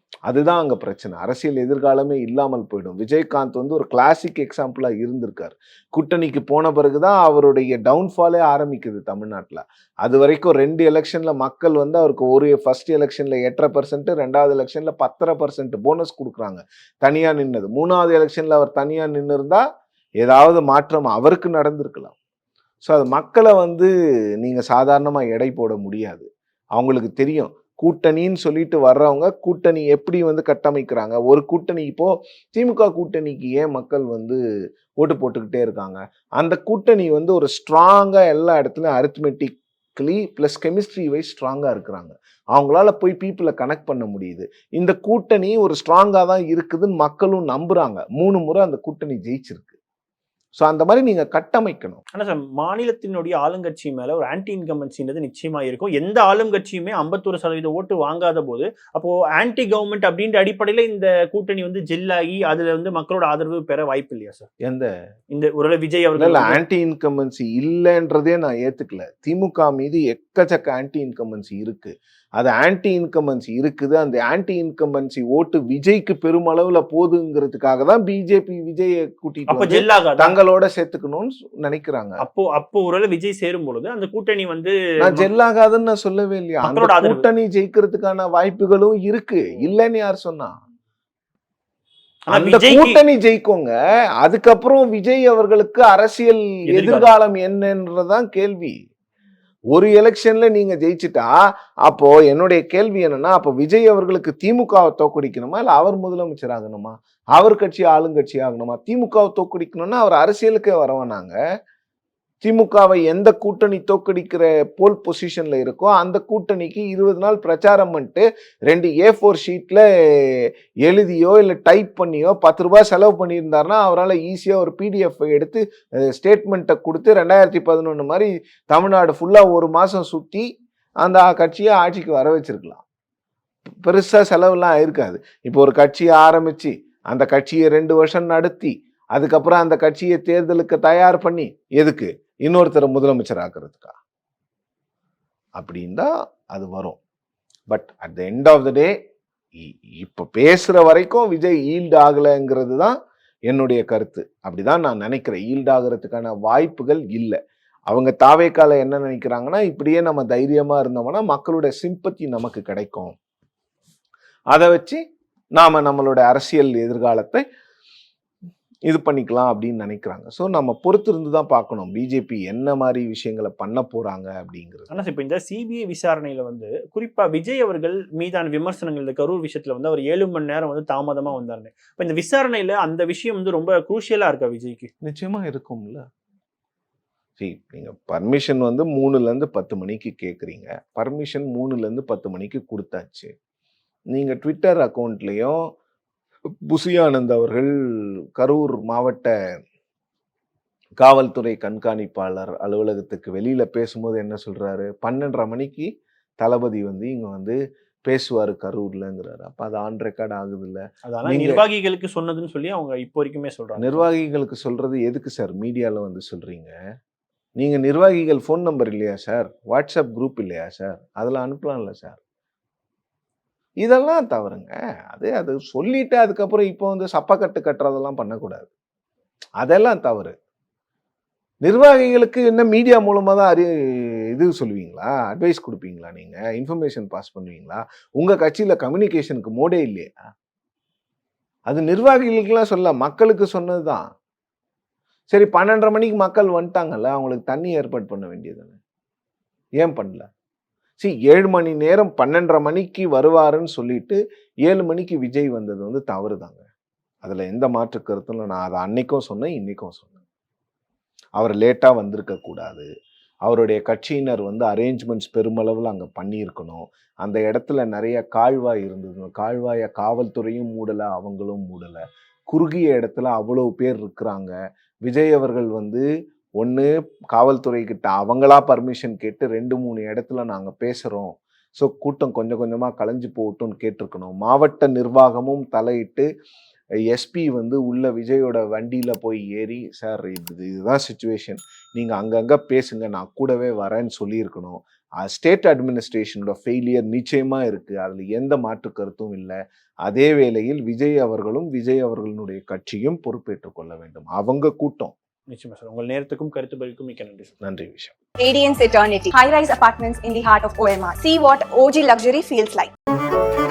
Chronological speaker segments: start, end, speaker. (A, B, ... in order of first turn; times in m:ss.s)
0:00.3-0:19.6 A
0:20.2-0:22.2 A
0:22.8-0:34.4 A
0:35.0-0:49.8 A
0:50.6-0:52.0 A
0:52.2-1:04.5 B
1:04.6-1:04.9 A
1:05.3-1:06.6 B
1:06.2-1:22.2 A
1:19.5-1:20.4 B
1:22.2-1:25.3 B
1:25.0-1:30.6 A
1:26.6-1:27.2 B
1:32.3-1:33.0 B
1:32.3-1:38.8 A
1:36.7-1:37.1 B
1:39.7-1:41.3 A
1:41.9-1:51.4 A
1:52.4-2:10.5 A
2:11.0-2:12.8 A
2:13.8-2:24.0 A
2:25.6-2:27.0 A
2:27.7-2:28.9 A
2:29.6-2:33.0 A
2:33.5-2:37.4 A
2:37.9-2:43.2 A
2:44.5-2:45.0 A
2:45.6-2:47.4 A
2:48.9-2:54.9 A
2:54.9-3:04.9 B
3:05.0-3:06.1 A
3:07.4-3:13.3 A
3:14.1-3:15.6 A
3:16.6-3:17.7 A
3:18.4-3:19.3 A
3:21.0-3:25.9 A
3:26.4-3:31.6 A
3:31.1-3:34.0 B
3:33.8-3:36.8 A
3:37.6-3:42.2 A
3:43.8-3:48.7 A
3:49.6-3:50.3 A
3:51.6-4:00.2 A
4:01.7-4:04.0 A
4:05.3-4:08.8 A
4:09.8-4:10.3 A
4:11.0-4:16.6 A
4:17.2-4:20.2 A
4:21.4-4:22.9 A
4:23.4-4:36.0 A
4:36.6-4:46.3 A
4:47.1-5:05.1 A
5:05.5-5:07.5 B
5:07.6-5:08.1 A
5:08.4-5:12.9 C